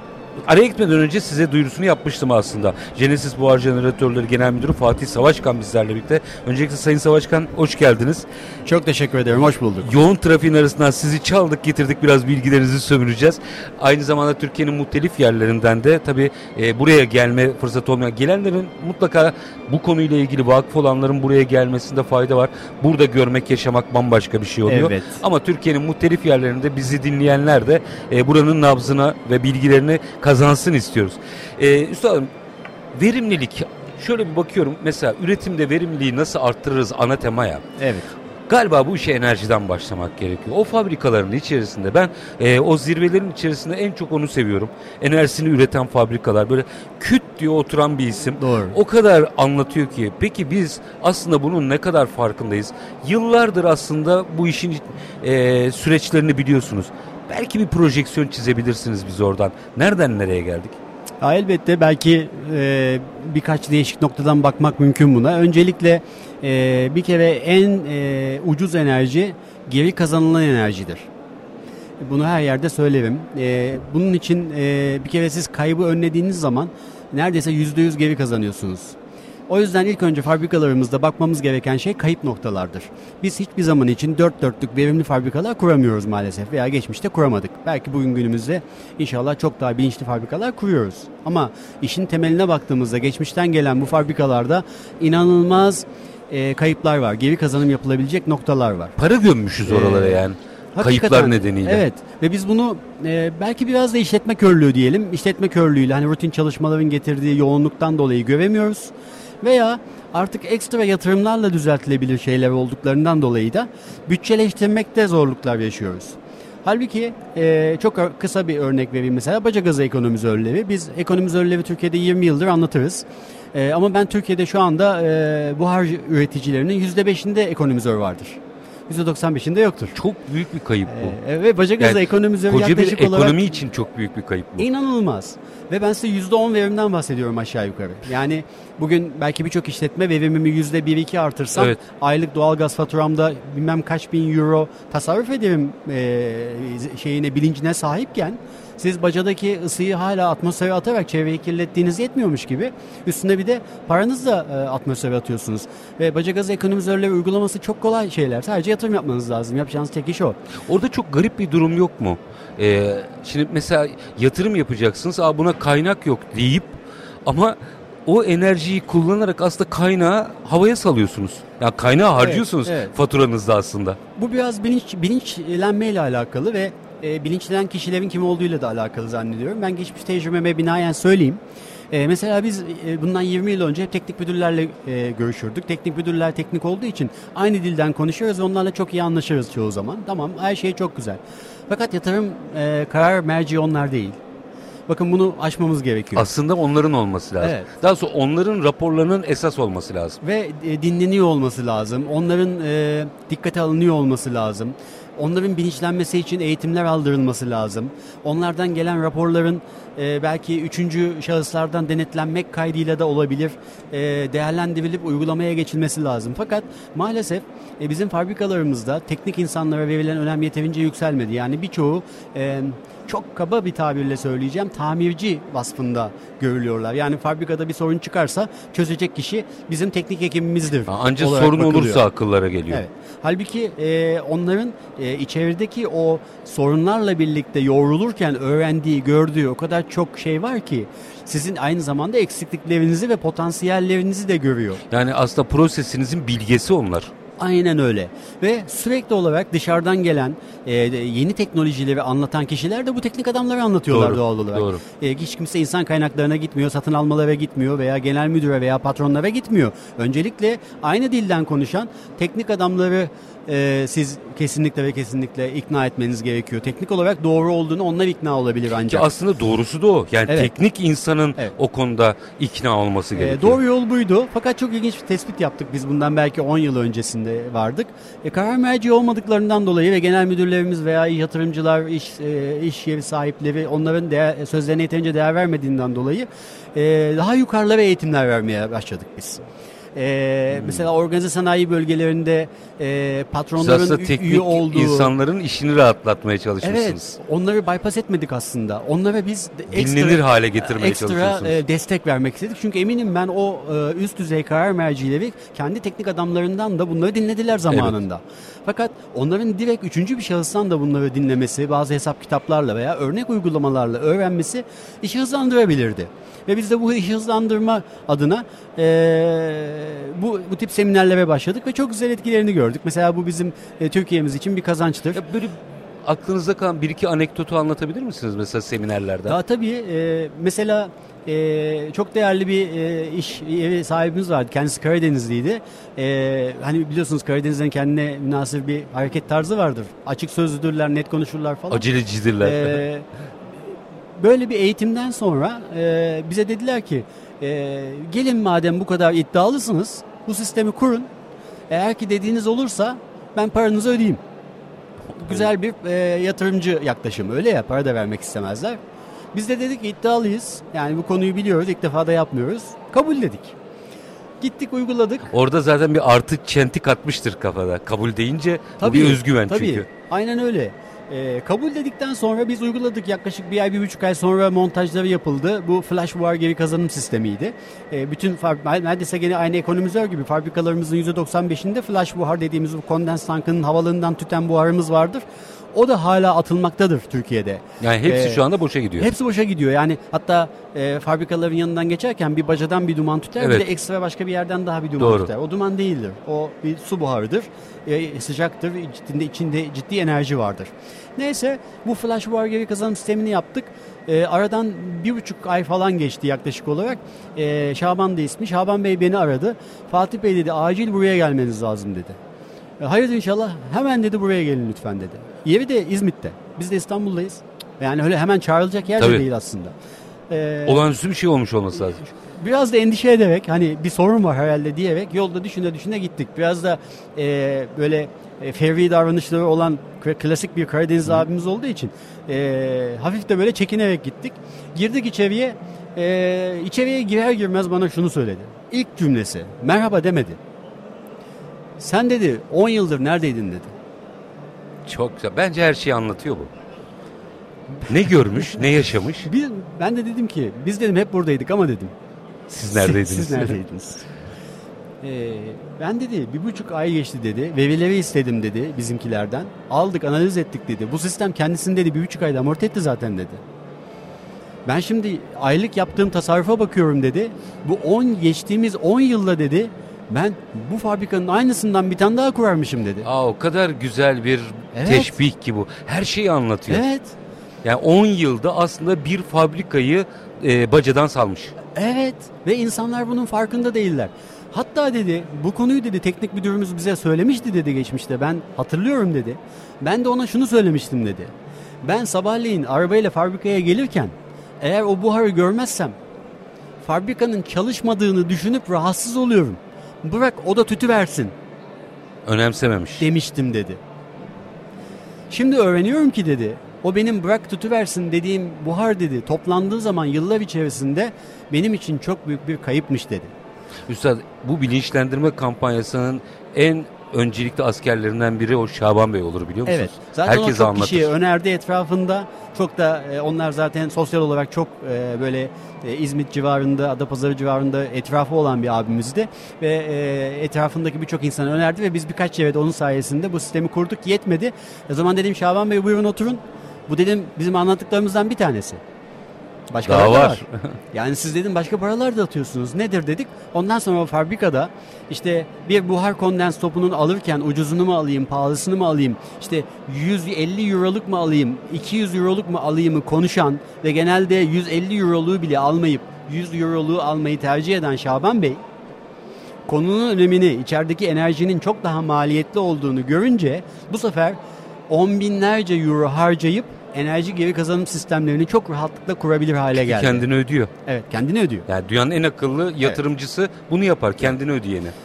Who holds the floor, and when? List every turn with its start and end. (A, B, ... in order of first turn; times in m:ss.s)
0:00.5-0:08.3 A
0:08.7-0:09.9 B
0:09.8-0:32.3 A
0:24.7-0:25.2 B
0:33.0-0:37.6 A
0:37.8-0:38.1 B
0:38.5-1:00.8 A
0:48.4-0:48.8 B
1:01.2-1:11.1 B
1:12.0-1:19.0 B
1:19.5-1:39.0 B
1:39.0-1:41.8 A
1:39.7-1:40.2 B
1:40.8-2:10.0 B
2:10.0-2:11.2 A
2:10.9-2:13.5 B
2:11.8-2:14.7 A
2:14.6-2:40.4 B
2:40.7-2:54.0 A
2:52.2-2:53.0 B
2:54.2-3:01.4 B
3:01.9-3:14.2 B
3:14.9-3:16.3 B
3:16.2-3:20.2 A
3:17.4-3:17.7 B
3:20.2-3:52.0 B
3:50.9-3:52.8 A
3:52.7-4:04.8 B
4:04.9-4:07.1 A
4:07.4-4:29.1 B
4:13.9-4:14.8 A
4:28.8-4:33.6 A
4:33.2-4:49.4 B
4:50.0-4:55.1 B
4:53.6-4:57.1 A
4:56.6-5:25.2 B
4:59.7-5:01.6 A
5:07.7-5:08.0 A
5:25.1-5:29.4 A
5:29.3-5:41.9 B
5:41.7-5:42.8 A
5:42.4-5:43.1 B
5:44.2-5:51.1 B
5:51.7-5:54.2 B
5:55.2-5:58.8 B
5:59.3-6:03.6 B
6:04.4-6:05.3 B
6:05.3-6:09.9 A
6:08.8-6:25.2 B
6:25.7-6:28.4 B
6:27.8-6:29.1 A
6:29.0-6:52.2 B
6:33.4-6:33.7 A
6:35.0-6:35.3 A
6:52.8-6:59.7 B
6:59.0-6:59.2 A
7:00.3-7:00.9 B
7:00.7-7:02.0 A
7:01.7-7:20.4 B
7:21.8-7:23.7 B
7:24.9-7:26.5 A
7:27.8-7:29.3 A
7:29.3-7:31.9 B
7:32.5-7:33.6 A
7:32.7-7:34.1 B
7:35.0-7:43.4 B
7:44.7-7:53.1 B
7:53.0-7:56.9 A
7:54.7-7:55.2 B
7:56.7-7:57.2 B
7:57.6-8:01.6 A
8:01.8-8:11.3 B
8:11.8-8:16.0 B
8:16.8-8:21.3 B
8:22.3-8:23.1 A
8:23.0-8:23.8 B
8:25.3-8:33.3 B
8:33.9-8:41.1 A
8:39.7-8:58.8 B
8:59.7-9:18.6 B
8:59.8-9:00.7 A
9:19.7-9:24.4 B
9:24.9-9:30.3 B
9:29.7-9:30.7 A
9:30.9-9:31.7 B
9:31.7-9:34.9 A